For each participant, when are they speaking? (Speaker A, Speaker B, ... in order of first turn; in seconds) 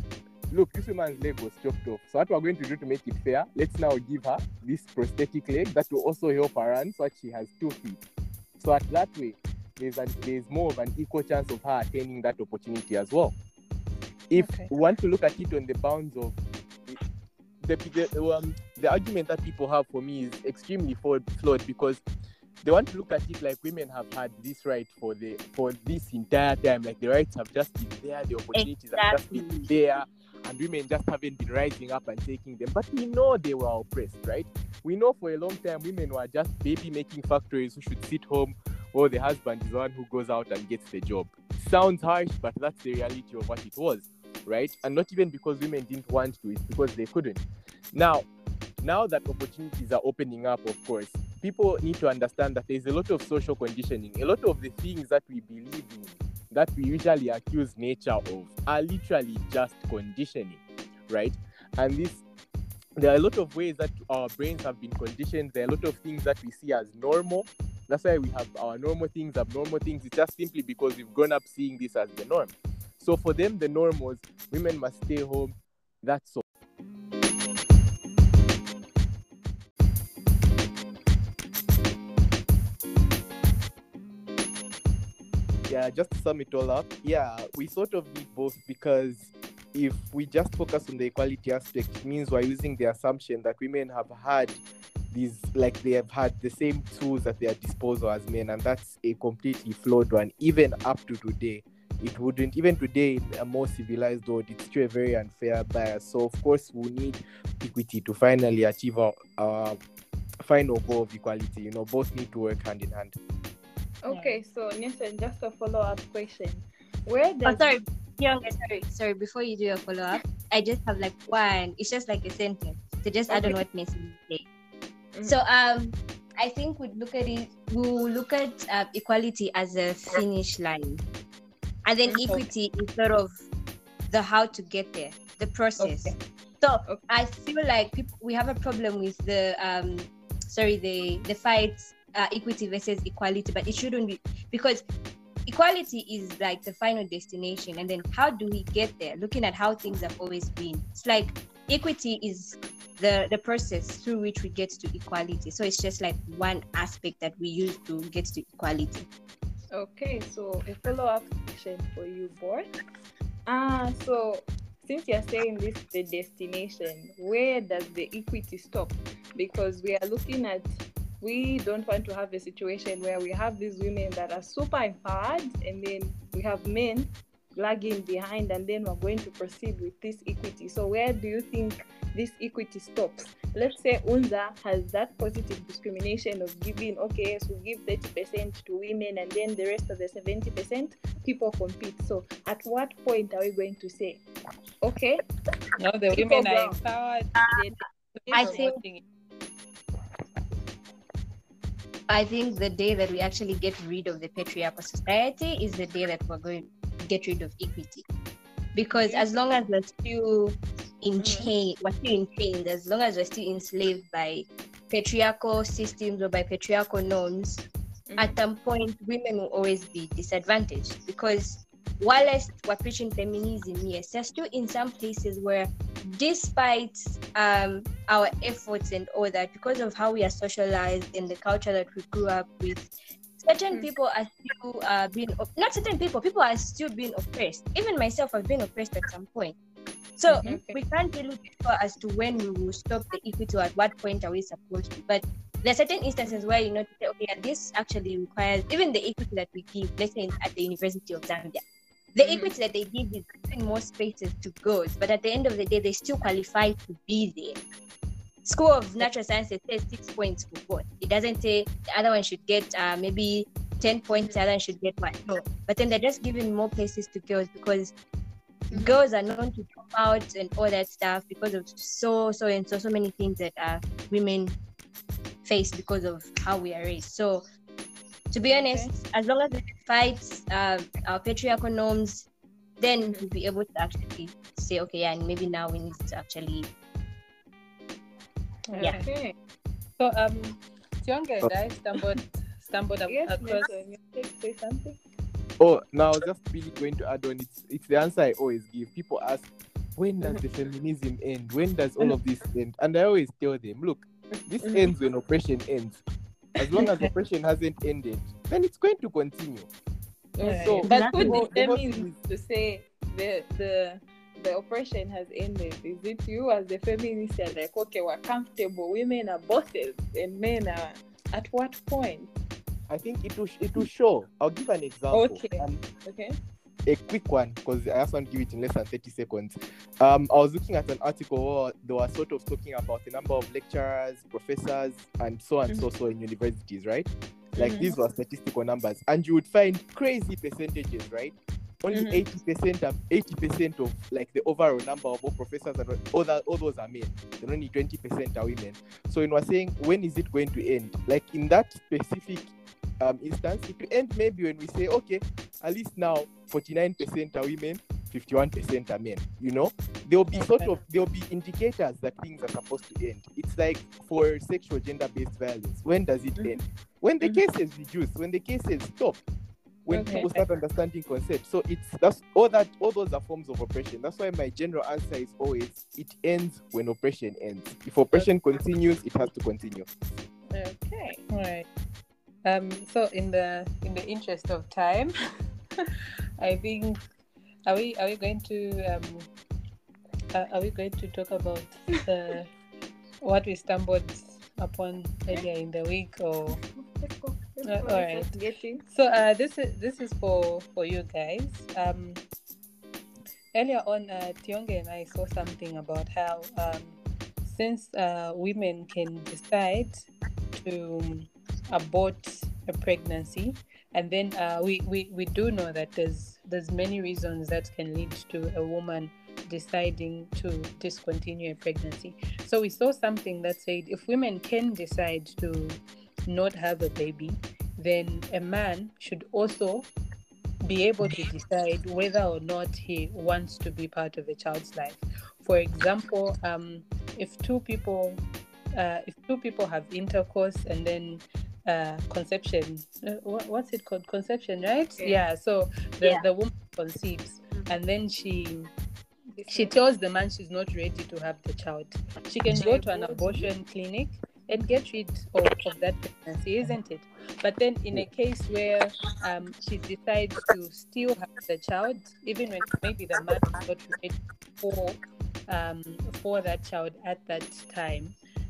Speaker A: 0.5-8.0, 8.6-13.3, 14.3-16.4, 17.6-22.0, 22.6-47.4, 47.9-48.3, 48.8-62.2, 63.0-76.4, 85.7-109.8, 110.4-113.1, 295.6-306.0, 306.6-309.7, 310.6-312.1, 322.9-325.8, 326.9-352.5, 353.0-369.2, 369.9-379.9
Speaker B: 14.4-14.7, 114.1-114.4, 135.8-136.2, 195.8-197.4, 198.2-199.0, 240.3-240.8, 278.5-278.9, 288.7-289.1, 290.0-293.8, 310.4-311.5, 360.3-360.7, 370.1-370.3, 381.3-381.7, 382.4-385.1, 386.4-387.0, 387.7-389.3, 390.3-392.5, 393.2-396.6, 397.6-398.3, 398.9-402.2, 403.5-429.9, 430.6-438.2, 438.8-448.7, 449.4-468.1
Speaker C: 28.6-29.7, 117.5-124.5, 125.2-131.0, 131.8-133.3, 134.1-144.8, 145.5-159.1, 197.4-197.7, 198.3-198.8, 202.1-208.0, 208.8-217.7, 218.2-239.6, 240.2-251.6, 252.2-257.6, 258.5-267.9, 268.7-274.6, 275.4-277.4, 278.3-282.3, 282.8-286.7, 310.9-311.4
Speaker D: 114.0-117.8, 123.3-123.6, 132.1-132.4, 159.7-162.7, 163.5-194.2, 194.8-195.2, 196.1-196.9, 197.4-197.8, 198.3-198.7, 208.9-209.2, 211.2-211.5, 240.3-240.6, 252.2-252.5, 264.2-264.4, 268.7-269.0, 283.0-283.3, 288.8-289.3, 293.1-295.0, 304.6-304.9, 310.4-322.4, 325.1-326.4, 337.6-338.0, 341.9-342.2, 366.4-366.6, 369.9-370.3, 380.5-381.2, 396.8-398.8, 449.4-449.7, 452.5-453.5